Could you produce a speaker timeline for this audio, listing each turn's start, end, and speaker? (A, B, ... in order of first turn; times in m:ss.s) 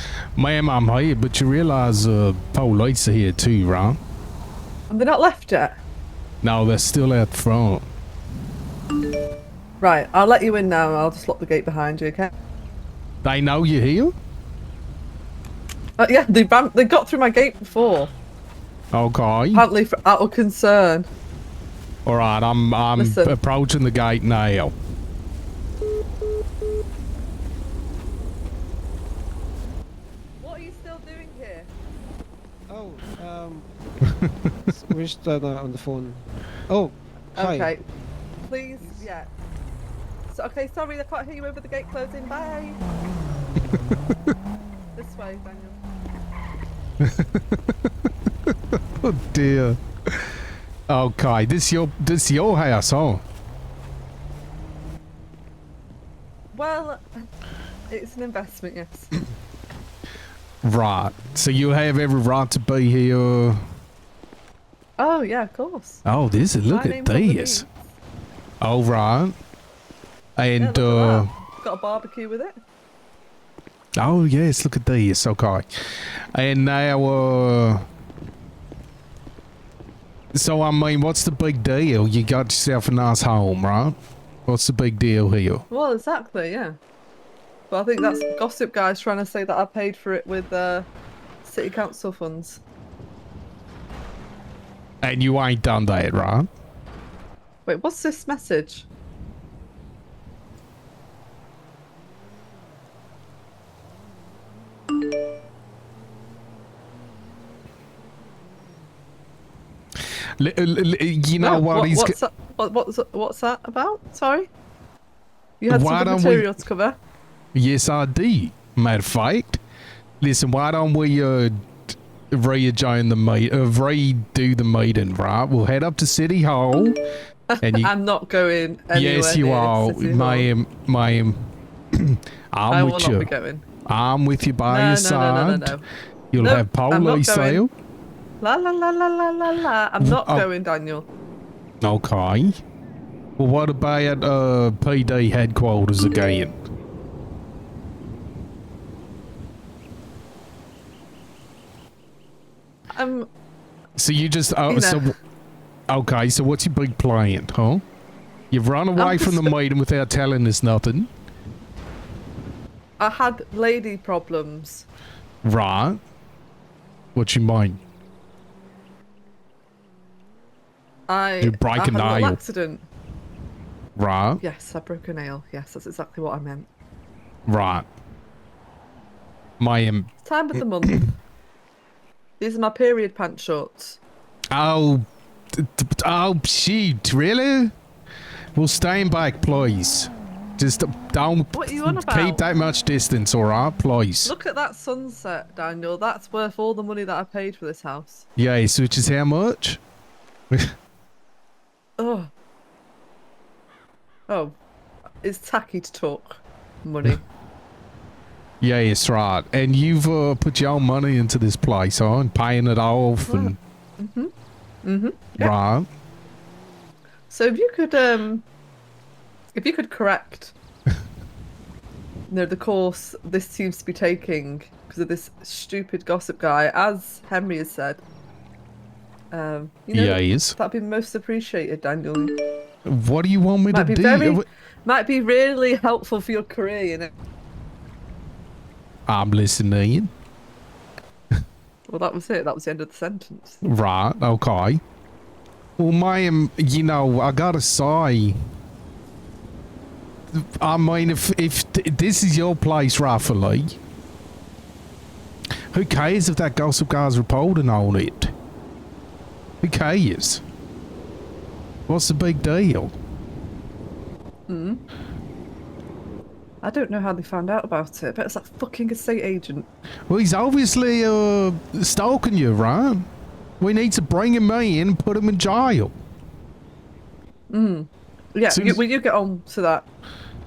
0:00.4-0:04.0 A
0:04.9-0:05.8 B
0:06.4-0:07.8 A
0:09.8-0:12.3 B
0:13.2-0:14.1 A
0:16.0-0:18.1 B
0:18.9-0:19.6 A
0:19.5-0:21.1 B
0:22.0-0:24.7 A
0:23.0-0:23.4 B
0:30.4-0:31.7 B
0:32.7-0:33.7 C
0:34.0-0:34.3 A
0:34.7-0:37.7 C
0:37.4-0:37.8 B
0:38.4-0:39.3 B
0:40.3-0:42.8 B
0:45.0-0:45.8 B
0:47.0-0:50.3 A
0:50.9-0:53.2 A
0:56.5-0:57.0 B
0:57.9-0:59.1 B
1:00.6-1:03.6 A
1:05.0-1:06.0 B
1:06.0-1:07.6 A
1:06.7-1:07.9 B
1:08.6-1:09.3 A
1:10.4-1:11.3 A
1:10.6-1:12.6 B
1:14.0-1:15.6 A
1:16.3-1:17.8 A
1:20.3-1:25.6 A
1:25.7-1:26.8 B
1:27.7-1:30.9 B
1:31.4-1:32.6 B
1:35.0-1:36.5 A
1:37.6-1:38.8 B
1:50.4-1:52.2 A
1:51.4-1:54.5 B
1:55.6-1:57.0 B
1:55.7-1:56.5 A
1:57.5-1:59.6 A
2:00.2-2:07.0 A
2:07.5-2:10.5 B
2:07.6-2:07.9 A
2:08.9-2:13.3 A
2:12.7-2:13.6 B
2:13.9-2:15.8 A
2:14.7-2:17.6 B
2:16.3-2:17.7 A
2:18.4-2:21.1 B
2:20.0-2:20.5 A
2:21.8-2:22.6 A
2:23.4-2:26.6 A
2:32.9-2:33.3 B
2:34.0-2:35.1 A
2:34.7-2:35.1 B
2:35.9-2:37.8 A
2:38.5-2:41.1 A
2:38.9-2:39.5 B
2:43.0-2:44.8 B
2:45.4-2:46.0 A
2:47.1-2:47.8 A
2:51.1-2:52.8 B
2:51.4-2:52.4 A
2:54.0-2:54.4 A
2:54.4-2:56.7 B
2:57.5-2:57.8 A
2:59.6-3:00.1 A
3:00.2-3:01.1 B
3:02.4-3:04.0 B
3:04.5-3:07.7 A
3:08.5-3:14.3 A
3:11.5-3:12.4 B
3:14.2-3:18.2 B
3:18.4-3:19.8 A
3:22.0-3:22.3 B
3:24.3-3:24.6 B
3:25.2-3:27.2 B
3:28.6-3:33.6 A
3:33.3-3:34.3 B
3:34.8-3:35.5 B
3:35.4-3:35.9 A
3:37.3-3:38.4 B
3:39.5-3:40.5 B
3:42.3-3:48.0 B
3:49.3-3:52.3 B
3:49.9-3:50.6 A
3:52.8-3:54.4 A
3:53.7-3:57.1 B
3:59.1-4:00.1 A
4:01.9-4:03.6 B
4:03.6-4:04.8 A
4:05.8-4:08.4 A
4:10.3-4:13.8 A
4:15.7-4:18.3 A
4:19.6-4:20.4 A
4:21.9-4:22.9 A
4:24.5-4:24.8 B
4:26.6-4:29.7 B
4:30.1-4:33.1 A
4:33.6-4:35.9 A
4:37.5-4:39.8 B
4:38.5-4:38.8 A